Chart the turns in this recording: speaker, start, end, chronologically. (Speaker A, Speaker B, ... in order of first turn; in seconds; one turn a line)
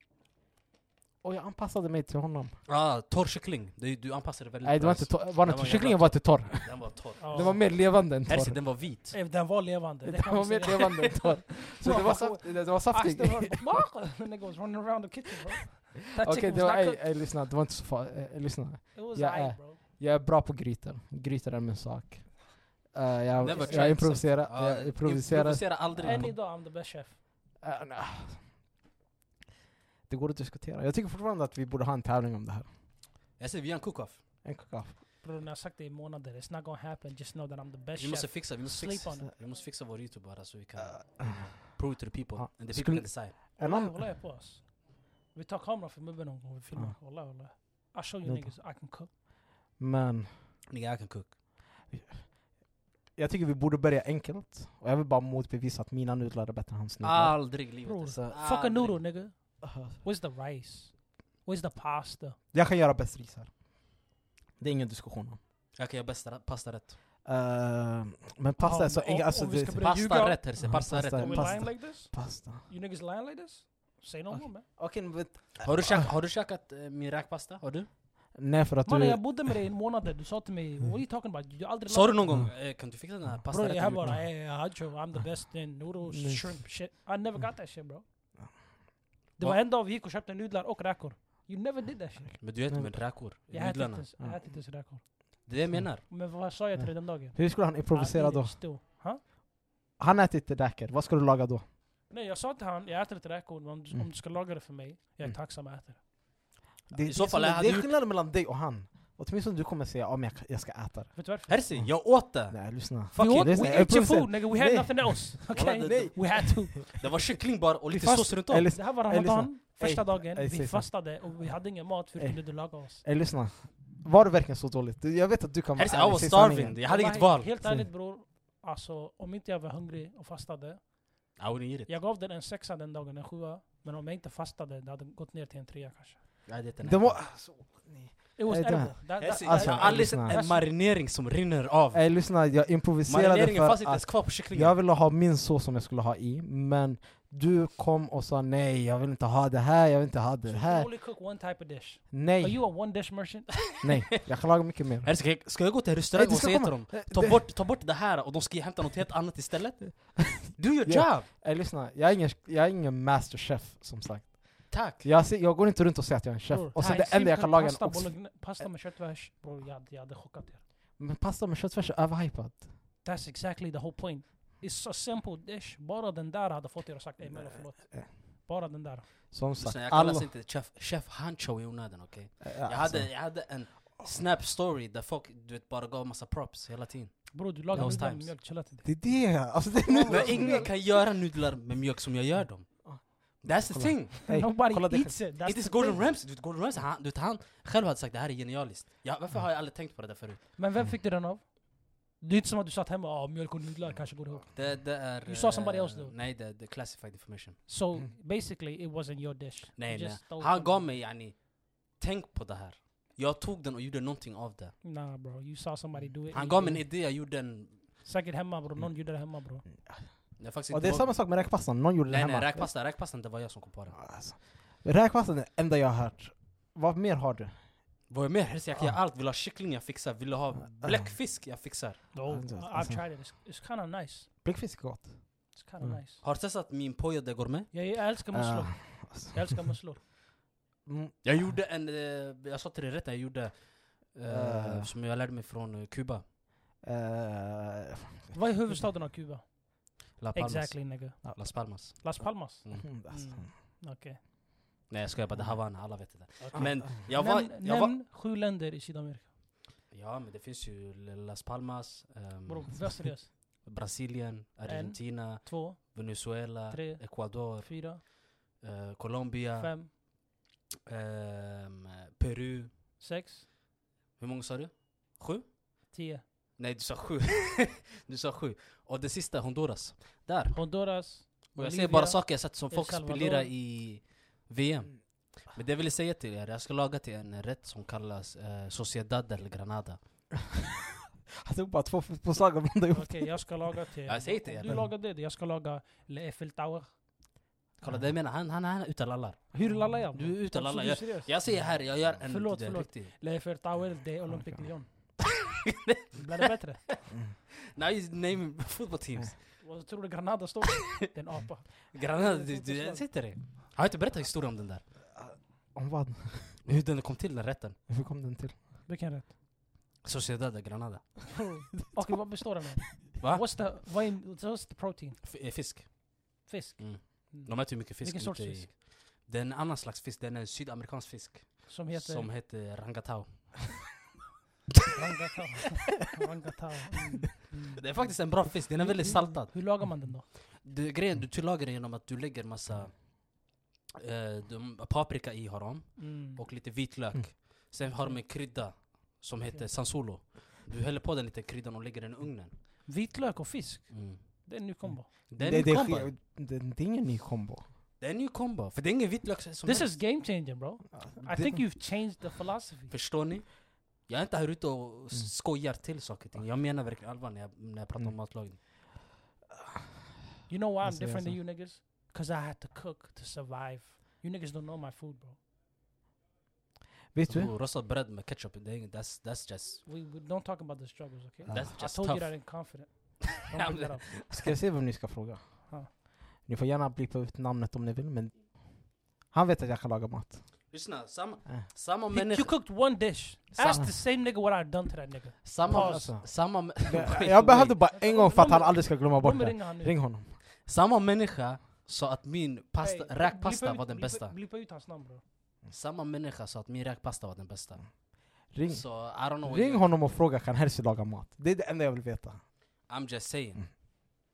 Speaker A: 1.2-2.6
Speaker B: 2.6-9.2
Speaker A: 4.6-8.6
Speaker C: 7.2-7.6
Speaker C: 9.1-17.0
Speaker A: 10.0-13.7
Speaker A: 16.2-26.4
Speaker C: 18.9-19.8
Speaker C: 23.4-24.1
Speaker B: 23.4-26.4
Speaker C: 26.0-27.2
Speaker A: 27.6-28.5
Speaker A: 30.1-32.7
Speaker B: 33.4-34.2
Speaker A: 34.4-35.0
Speaker C: 35.2-39.3
Speaker B: 38.0-43.4
Speaker A: 40.8-41.8
Speaker A: 42.4-44.0
Speaker C: 43.5-49.1
Speaker A: 48.2-48.5
Speaker A: 49.8-50.5
Speaker B: 50.7-51.4
Speaker A: 51.9-52.5
Speaker A: 53.1-58.3
Speaker B: 57.0-59.1
Speaker C: 57.8-62.4
Speaker A: 59.7-59.9
Speaker A: 62.5-63.5
Speaker A: 64.6-65.4
Speaker B: 65.8-67.0
Speaker A: 67.2-69.9
Speaker C: 68.6-74.7
Speaker B: 69.8-71.7
Speaker A: 70.6-72.7
Speaker A: 74.7-76.1
Speaker B: 75.6-77.9
Speaker A: 78.3-79.6
Speaker C: 78.8-82.5
Speaker B: 81.9-84.3
Speaker C: 83.5-88.0
Speaker A: 86.1-86.7
Speaker C: 89.4-92.6
Speaker B: 92.4-94.0
Speaker A: 92.7-93.1
Speaker C: 93.5-99.2
Speaker A: 94.2-94.5
Speaker B: 95.5-96.1
Speaker A: 96.8-98.6
Speaker A: 100.0-101.6
Speaker C: 102.1-106.0
Speaker A: 106.9-116.8
Speaker B: 107.0-107.9
Speaker C: 111.1-111.6
Speaker B: 111.5-114.1
Speaker C: 113.2-117.0
Speaker B: 115.5-118.8
Speaker A: 117.9-121.5
Speaker C: 118.7-123.0
Speaker A: 122.1-126.8
Speaker B: 125.8-127.5
Speaker C: 126.8-136.2
Speaker A: 127.6-127.9
Speaker B: 131.4-131.9
Speaker B: 136.4-137.3
Speaker A: 136.8-140.4
Speaker C: 138.4-140.7
Speaker B: 139.2-142.2
Speaker A: 141.9-150.9
Speaker B: 143.1-144.8
Speaker C: 150.4-153.8
Speaker A: 152.1-152.8
Speaker A: 153.8-155.2
Speaker B: 155.0-161.3
Speaker A: 156.1-157.4
Speaker A: 160.5-168.6
Speaker B: 164.7-165.0
Speaker C: 166.5-170.6
Speaker A: 171.0-172.7
Speaker C: 173.0-179.3
Speaker A: 177.2-178.1
Speaker A: 179.3-180.3
Speaker B: 179.6-188.4
Speaker A: 182.4-183.3
Speaker C: 187.3-190.7
Speaker A: 187.7-188.0
Speaker A: 188.8-190.8
Speaker B: 190.0-194.2
Speaker A: 192.8-195.2
Speaker C: 194.2-196.0
Speaker B: 195.4-200.4
Speaker C: 200.6-206.1
Speaker B: 204.5-207.6
Speaker C: 207.7-210.9
Speaker B: 209.8-214.8
Speaker C: 214.8-216.9
Speaker B: 216.3-217.9
Speaker C: 218.0-219.6
Speaker A: 219.8-222.7
Speaker B: 220.4-221.4
Speaker B: 222.1-224.0
Speaker A: 223.9-227.7
Speaker B: 228.1-232.0
Speaker A: 230.7-231.1
Speaker C: 232.1-234.3
Speaker A: 232.2-233.1
Speaker A: 234.4-236.0
Speaker C: 235.5-236.2
Speaker B: 236.2-237.7
Speaker C: 237.7-240.0
Speaker A: 238.3-239.6
Speaker A: 240.8-241.5
Speaker B: 241.2-246.2
Speaker A: 244.3-244.9
Speaker A: 246.8-248.3
Speaker C: 248.3-254.2
Speaker B: 250.2-252.8
Speaker A: 252.8-253.5
Speaker B: 254.9-257.9
Speaker C: 256.4-259.3
Speaker A: 256.5-256.9
Speaker B: 259.9-270.0
Speaker C: 262.4-263.3
Speaker C: 264.6-266.1
Speaker C: 266.7-268.0
Speaker C: 269.6-269.9
Speaker B: 270.9-272.7
Speaker C: 273.0-273.4
Speaker B: 274.2-275.6
Speaker C: 275.9-276.2
Speaker B: 276.6-290.0
Speaker C: 280.5-283.5
Speaker A: 291.4-293.7
Speaker C: 292.9-297.0
Speaker B: 294.1-294.8
Speaker B: 297.8-303.1
Speaker C: 299.5-301.7
Speaker C: 302.2-304.9
Speaker A: 304.3-304.7
Speaker B: 305.9-306.2
Speaker C: 306.1-307.0
Speaker B: 307.7-309.6
Speaker C: 309.6-313.1
Speaker B: 311.9-314.8
Speaker A: 315.1-316.7
Speaker B: 316.6-317.8
Speaker A: 317.9-318.6
Speaker C: 318.9-319.3
Speaker B: 320.0-321.4
Speaker C: 321.6-325.2
Speaker A: 321.8-322.2
Speaker B: 323.2-323.7
Speaker B: 325.2-326.2
Speaker C: 326.4-328.7
Speaker B: 326.8-333.9
Speaker C: 331.7-332.3
Speaker C: 334.9-340.3
Speaker B: 337.7-352.6
Speaker C: 346.0-346.4
Speaker C: 347.9-348.2
Speaker C: 349.5-349.7
Speaker C: 352.9-355.1
Speaker B: 353.9-354.5
Speaker B: 355.3-356.1
Speaker A: 355.4-357.6
Speaker B: 358.0-360.0
Speaker C: 359.6-362.9
Speaker A: 361.0-361.6
Speaker B: 362.9-368.6
Speaker C: 370.5-375.4
Speaker A: 370.8-371.4
Speaker A: 377.1-377.5
Speaker B: 377.2-379.8
Speaker C: 379.8-384.2
Speaker A: 381.5-381.7
Speaker B: 381.5-382.9
Speaker B: 383.5-384.5
Speaker A: 384.3-390.5
Speaker B: 390.7-392.7
Speaker C: 392.1-396.1
Speaker B: 393.6-393.8
Speaker A: 393.6-393.9
Speaker B: 395.4-397.9
Speaker A: 395.6-400.4
Speaker C: 397.9-400.0
Speaker B: 400.6-404.4
Speaker C: 402.8-405.2
Speaker B: 405.7-409.9
Speaker A: 408.5-412.5
Speaker B: 412.9-414.1